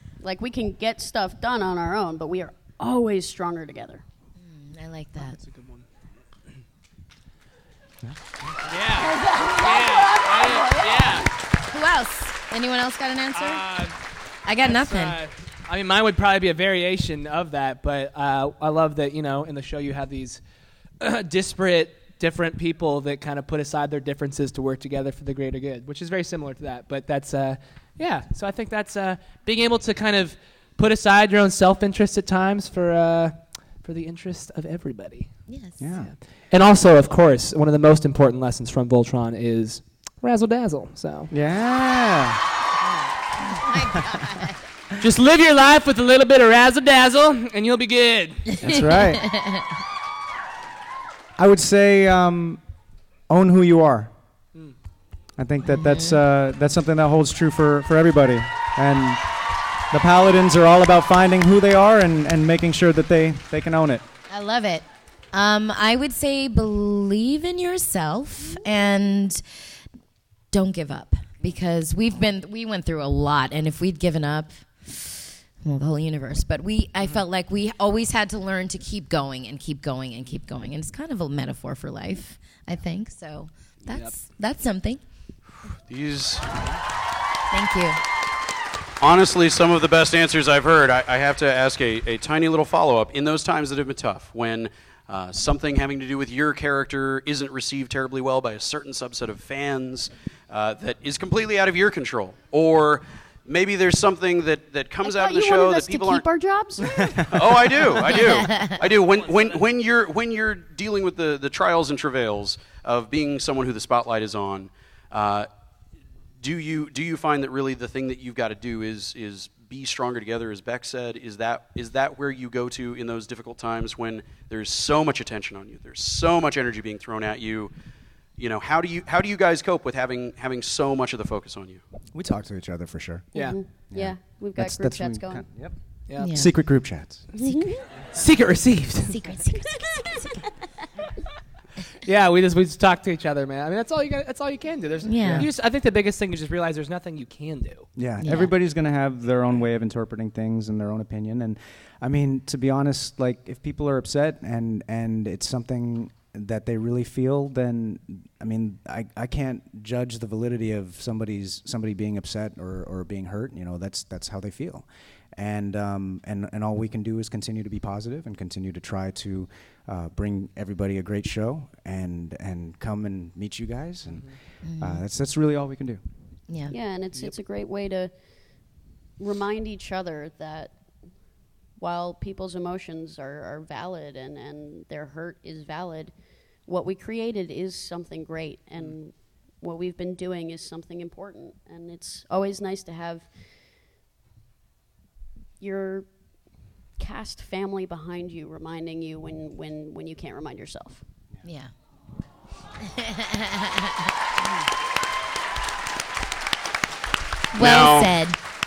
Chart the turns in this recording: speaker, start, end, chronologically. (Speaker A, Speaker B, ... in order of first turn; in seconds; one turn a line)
Speaker A: 0.2-4.0
Speaker B: 4.4-5.4
Speaker C: 5.2-5.8
Speaker C: 8.7-11.3
Speaker A: 8.9-11.3
Speaker B: 11.7-13.6
Speaker C: 13.3-13.9
Speaker B: 14.5-15.2
Speaker C: 14.6-20.4
Speaker C: 21.0-35.3
Speaker B: 35.5-35.8
Speaker D: 35.8-36.1
Speaker C: 36.0-41.3
Speaker D: 41.3-42.4
Speaker B: 43.4-44.6
Speaker C: 45.0-48.5
Speaker D: 48.6-49.3
Speaker B: 49.2-49.6
Speaker D: 51.4-52.6
Speaker D: 53.3-54.1
Speaker D: 55.4-59.2
Speaker B: 55.7-56.2
Speaker D: 59.9-64.0
Speaker B: 64.3-69.4
Speaker B: 70.5-85.0
Speaker C: 83.9-84.1
Speaker E: 85.9-86.6
Speaker B: 87.5-88.0
Speaker E: 89.0-106.2
Speaker A: 105.0-108.1
Speaker E: 107.3-115.5
Speaker B: 108.2-108.8
Speaker C: 108.8-109.6
Speaker E: 116.4-127.7
Speaker E: 128.4-131.8
Speaker D: 132.1-133.3
Speaker A: 133.3-135.4
Speaker D: 133.9-137.3
Speaker C: 136.1-136.4
Speaker B: 136.2-136.5
Speaker A: 137.4-137.8
Speaker C: 138.2-139.3
Speaker B: 139.1-140.3
Speaker C: 142.1-147.9
Speaker B: 145.0-145.5
Speaker D: 145.2-145.5
Speaker D: 148.0-174.3
Speaker B: 148.2-148.5
Speaker C: 174.1-174.4
Speaker B: 174.7-175.0
Speaker D: 174.8-176.0
Speaker A: 176.7-178.1
Speaker A: 179.2-180.8
Speaker A: 181.8-186.1
Speaker A: 186.7-193.3
Speaker A: 195.6-196.1
Speaker A: 197.0-201.0
Speaker B: 201.4-201.7
Speaker B: 202.8-203.9
Speaker B: 207.5-208.4
Speaker E: 207.6-208.1